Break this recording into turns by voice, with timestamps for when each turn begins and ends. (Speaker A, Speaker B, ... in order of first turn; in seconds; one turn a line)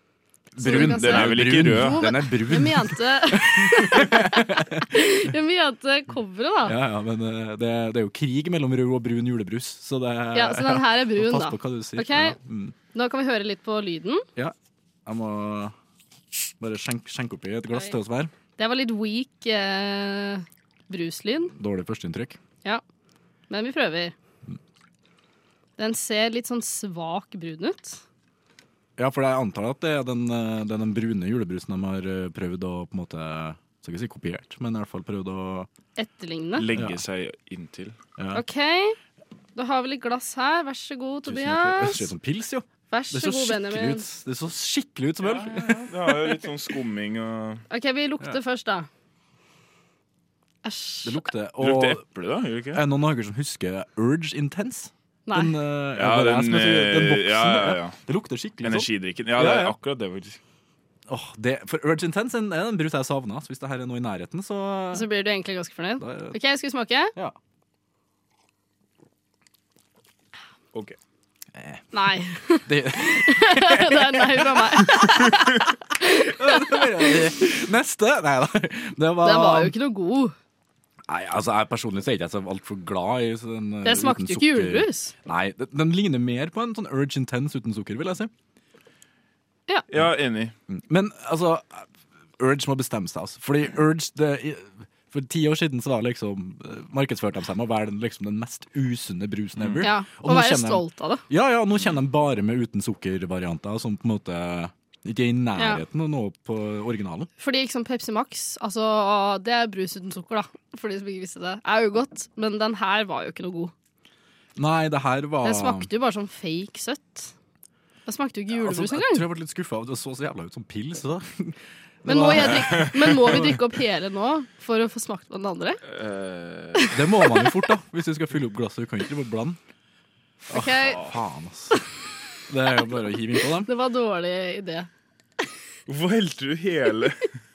Speaker A: 0.5-4.9
Speaker B: 0.6-6.8
Speaker C: 0.7-2.0
Speaker A: 6.7-12.8
Speaker B: 10.3-12.4
Speaker B: 12.9-14.3
Speaker A: 15.1-15.8
Speaker A: 16.6-18.3
Speaker B: 18.6-21.5
Speaker A: 21.5-22.4
Speaker B: 23.5-24.1
Speaker B: 25.8-28.0
Speaker A: 29.0-35.7
Speaker B: 36.0-36.7
Speaker C: 36.6-38.0
Speaker A: 36.7-37.0
Speaker A: 38.2-38.4
Speaker B: 38.3-39.0
Speaker B: 39.5-42.1
Speaker A: 41.3-46.4
Speaker B: 42.9-44.1
Speaker C: 45.2-47.6
Speaker B: 47.7-48.9
Speaker B: 50.6-51.2
Speaker A: 51.0-52.0
Speaker C: 51.6-52.8
Speaker A: 52.7-59.8
Speaker B: 55.3-55.5
Speaker C: 56.0-58.0
Speaker C: 58.6-60.4
Speaker A: 61.1-65.1
Speaker B: 64.9-67.1
Speaker A: 66.0-66.4
Speaker A: 71.5-71.8
Speaker B: 71.9-77.2
Speaker A: 72.7-75.3
Speaker A: 76.2-79.7
Speaker B: 79.2-80.3
Speaker A: 81.1-88.3
Speaker B: 83.8-85.1
Speaker C: 89.9-90.5
Speaker A: 90.7-91.9
Speaker A: 92.4-107.3
Speaker C: 99.6-99.8
Speaker B: 99.8-101.2
Speaker B: 105.6-105.8
Speaker B: 107.4-113.7
Speaker A: 114.6-115.9
Speaker B: 115.4-117.3
Speaker B: 118.1-119.3
Speaker A: 118.5-123.6
Speaker B: 122.1-125.8
Speaker C: 125.8-126.9
Speaker B: 126.8-127.6
Speaker A: 126.9-129.6
Speaker B: 130.5-131.0
Speaker A: 130.5-131.8
Speaker A: 132.5-133.7
Speaker B: 133.6-134.9
Speaker C: 135.9-137.3